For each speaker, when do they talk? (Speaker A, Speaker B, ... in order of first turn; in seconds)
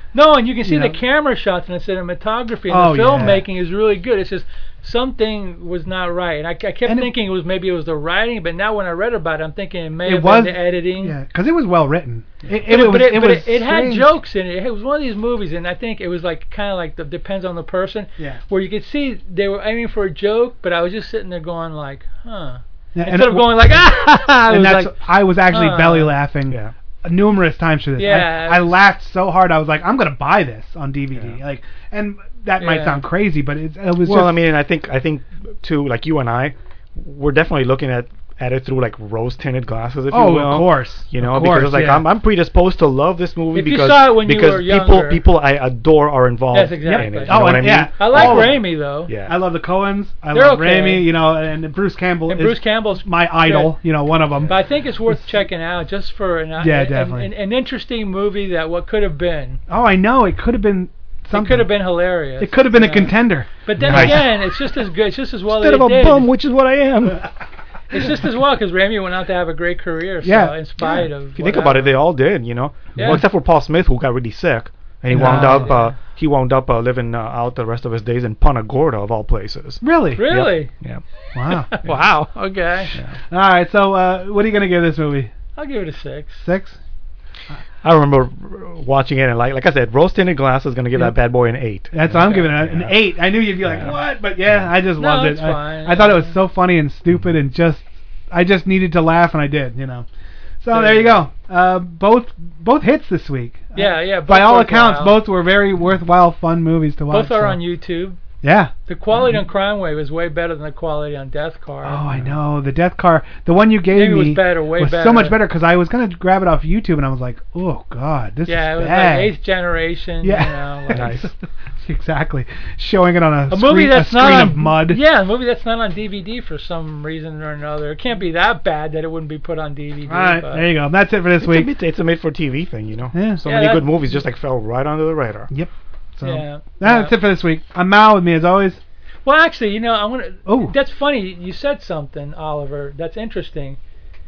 Speaker A: 0.1-11.2, 12.7-26.1, 28.0-28.8, 32.6-33.0, 43.5-45.2, 46.5-49.1, 50.3-51.1, 52.3-53.8, 54.4-59.6, 61.3-66.3, 67.9-72.0, 73.0-73.2, 75.1-75.9, 80.2-80.7, 81.7-82.9, 85.6-86.5, 92.2-92.5, 95.0-96.3, 100.7-101.2, 103.8-105.2, 107.1-108.2, 108.9-112.0, 113.9-115.4, 118.5-121.1, 123.5-130.7, 133.4-133.9, 136.2-137.2, 139.2-143.8
Speaker B: 0.7-1.0, 2.7-3.5, 6.8-7.1, 10.1-14.1, 22.9-23.8, 24.4-34.5, 40.1-42.1, 46.8-48.7, 49.2-55.2, 56.6-57.3, 59.7-61.7, 62.4-64.2, 70.2-71.1, 73.0-73.2, 75.1-75.7, 79.8-80.4, 81.3-81.7, 83.3-85.3, 86.4-86.8, 91.9-100.1, 100.6-107.6, 108.4-108.7, 111.8-119.4, 120.2-125.0, 130.1-131.7, 133.1-133.4, 135.5-138.8, 140.5-140.7
Speaker C: 34.0-49.4, 63.8-64.3, 65.5-67.3, 71.4-81.0, 87.8-93.0, 93.6-94.0, 120.9-121.3, 131.4-135.5